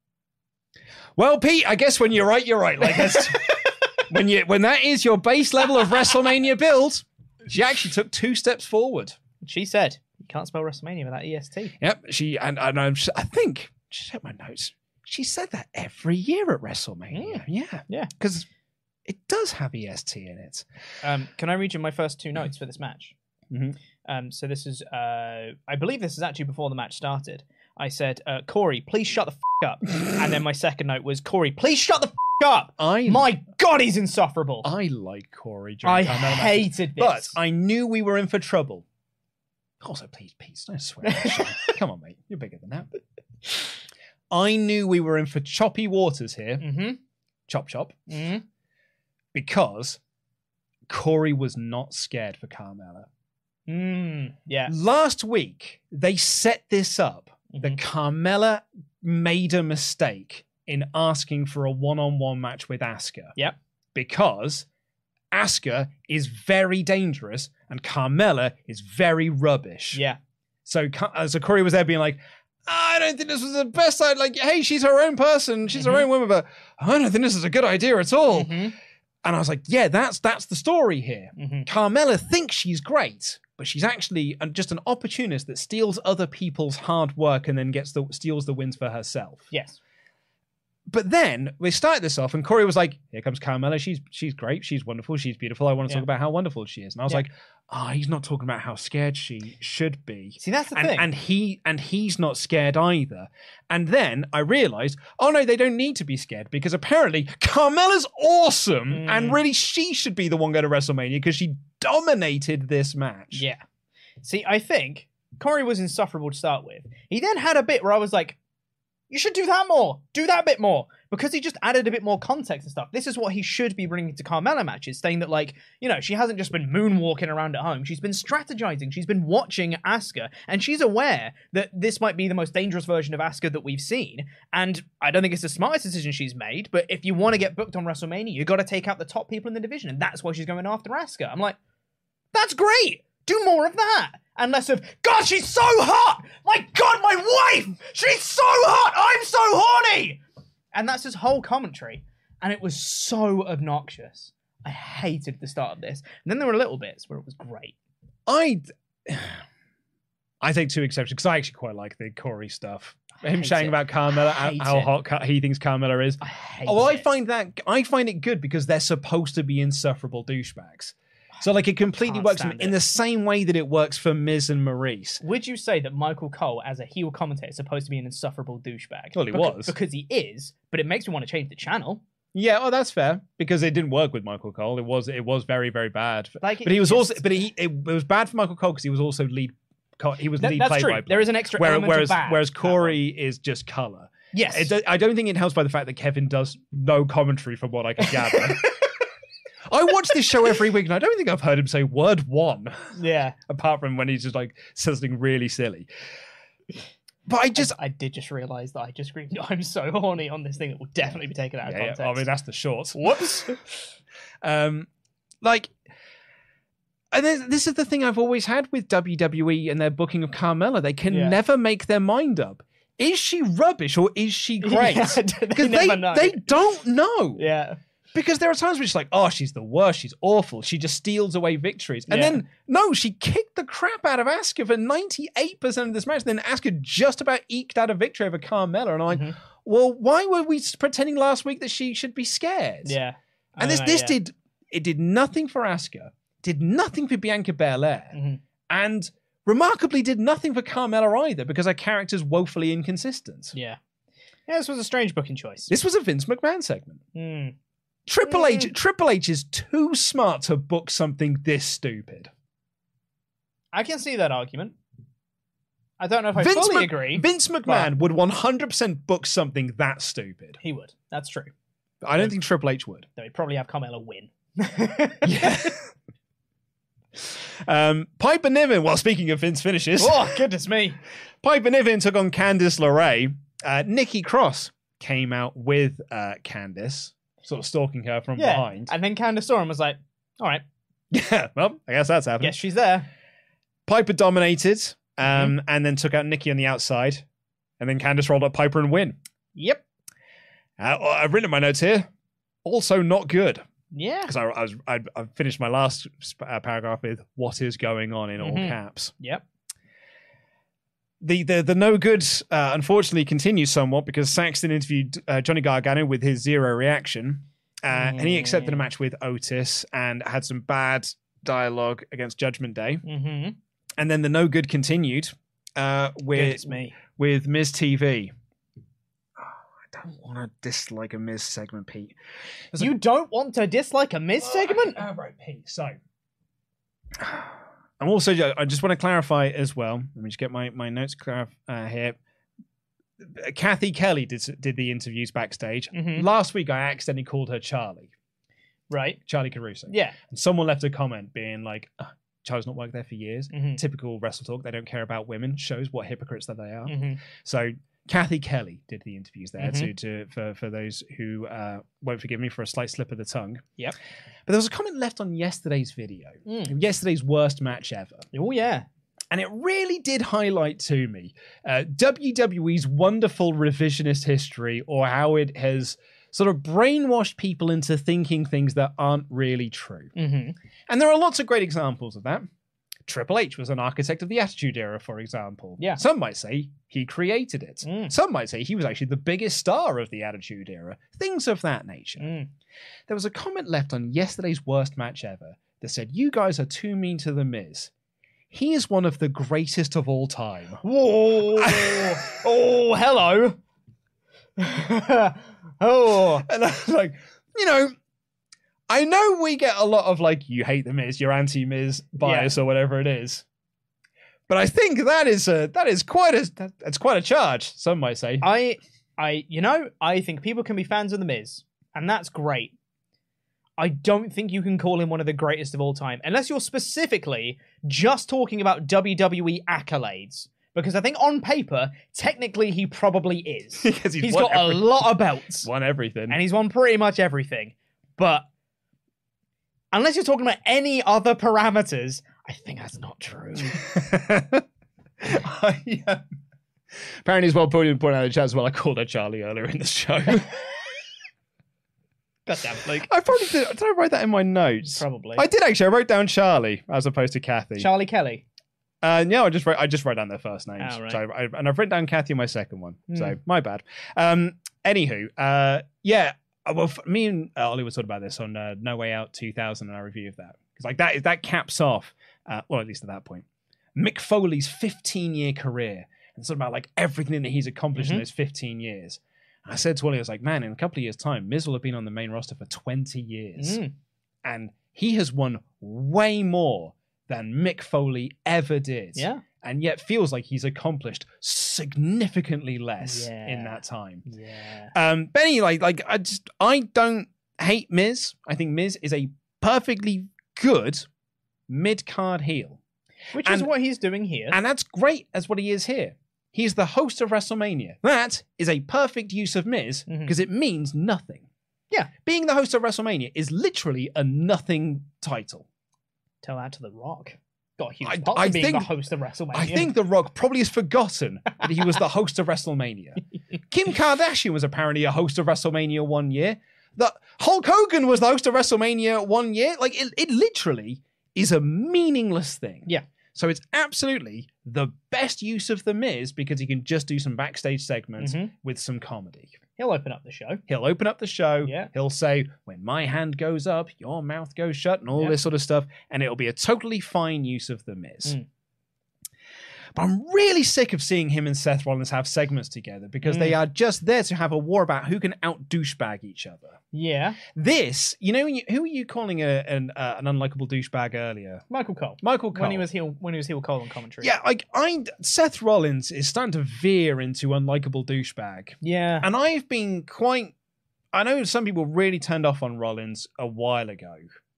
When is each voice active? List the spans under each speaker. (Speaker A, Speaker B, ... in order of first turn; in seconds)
Speaker A: 1.1-9.2, 11.8-18.5, 19.1-20.6, 23.5-23.8, 32.8-33.3, 34.6-38.8, 39.8-42.9, 44.3-46.7, 47.5-48.1, 49.3-50.0, 50.9-53.1, 54.7-63.4, 63.9-64.7, 65.3-70.0, 70.6-78.7, 79.2-89.5, 90.9-113.5, 158.3-159.4, 160.4-175.2, 179.1-179.7, 182.3-198.8, 199.7-202.9, 203.4-205.9, 207.3-207.8, 211.6-213.5, 214.4-214.9, 215.4-215.7, 217.1-227.4, 228.1-243.0, 243.6-248.2, 248.7-253.5, 255.7-257.0, 258.1-262.3, 266.4-270.6, 272.0-273.1, 275.2-275.9, 277.2-280.4, 281.4-288.9, 291.1-292.6, 293.9-297.2, 297.8-299.2, 300.8-302.1, 302.6-303.6, 304.3-309.1, 311.2-323.0, 324.0-328.3, 329.4-332.1, 334.4-336.0, 337.2-342.2, 343.2-348.1, 349.2-363.6, 364.4-368.2, 369.3-380.1, 380.9-382.5, 383.1-392.3, 393.1-397.9, 398.5-400.8, 401.5-402.3, 406.4-407.9, 408.9-413.4, 414.5-418.5, 433.8-436.4, 443.8-444.6, 445.2-446.2, 447.2-450.6, 453.0-457.9, 459.0-483.8, 484.4-494.2, 494.9-501.1, 501.7-502.8, 503.4-503.7, 504.5-511.4, 512.2-515.6, 518.0-518.9, 519.5-539.6, 540.7-548.4, 549.9-556.8, 557.5-561.6, 562.2-562.9, 564.2-570.5, 571.1-574.3
Speaker B: 2.9-3.3, 9.4-11.7, 17.1-18.1, 21.0-23.1, 24.0-34.7, 35.8-37.4, 41.0-41.7, 46.6-47.0, 48.1-48.4, 53.7-54.7, 57.5-57.8, 69.9-70.2, 75.7-76.0, 78.3-78.7, 81.3-81.7, 89.5-89.8, 100.4-101.1, 108.9-109.4, 113.3-113.6, 114.2-118.4, 119.1-141.6, 142.3-150.2, 150.7-157.7, 163.2-164.9, 166.2-167.1, 172.0-172.8, 175.2-182.0, 186.4-187.5, 190.4-193.0, 194.3-194.7, 198.0-198.8, 202.9-203.4, 207.5-212.3, 212.9-213.6, 221.1-221.4, 224.6-226.5, 227.4-227.8, 232.1-232.4, 239.1-239.4, 242.8-244.2, 248.1-248.4, 253.5-253.8, 254.5-255.7, 257.1-257.5, 258.2-258.7, 263.7-264.8, 266.0-267.9, 270.6-271.5, 273.1-275.7, 280.0-281.0, 288.4-290.6, 292.4-293.1, 295.2-295.5, 299.5-299.8, 303.9-304.3, 308.4-309.4, 317.9-318.8, 323.0-323.6, 326.3-327.0, 332.8-335.0, 345.9-346.2, 348.9-349.2, 349.9-350.2, 353.5-353.8, 356.9-357.2, 359.6-359.9, 366.4-366.7, 368.3-368.9, 380.1-380.6, 387.8-388.1, 392.2-392.5, 400.8-403.6, 404.6-406.4, 412.2-412.5, 418.4-422.7, 423.8-435.7, 436.3-438.5, 439.9-443.8, 452.5-453.1, 454.8-455.4, 457.8-458.4, 460.8-461.2, 463.1-463.4, 477.9-478.2, 483.6-483.9, 489.1-489.4, 493.0-494.9, 503.3-504.6, 510.1-510.4, 516.4-519.9, 538.2-538.5, 539.8-540.6, 541.6-541.9, 553.2-553.6, 556.9-557.4, 561.7-564.3, 568.8-569.3